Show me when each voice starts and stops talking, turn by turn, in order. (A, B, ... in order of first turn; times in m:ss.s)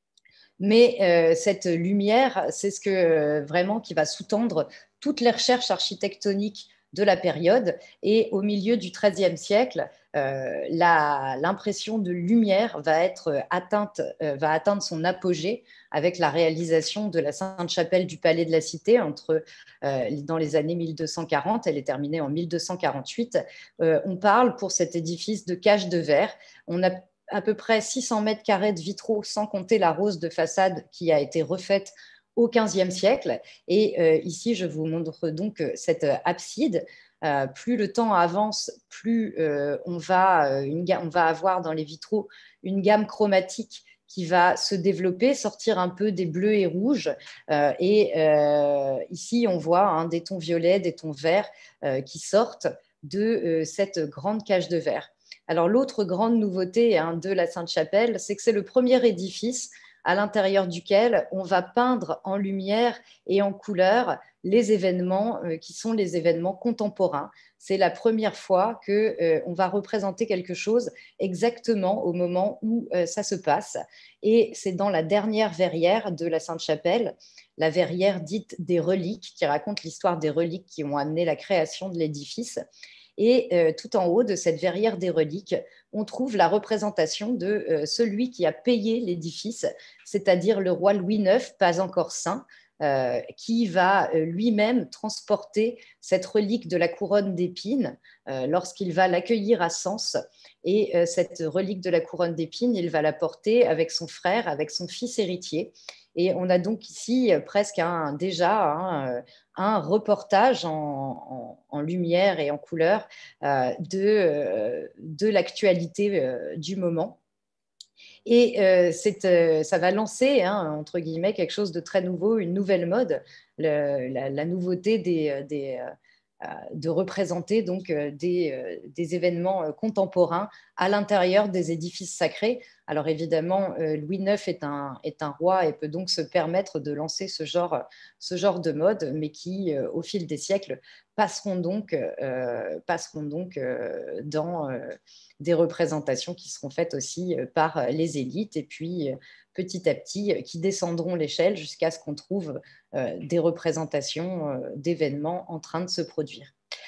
0:00.6-1:22.6 A
1:23.2-1:57.2 A
1:58.3-2:05.9 A
2:06.4-2:36.5 A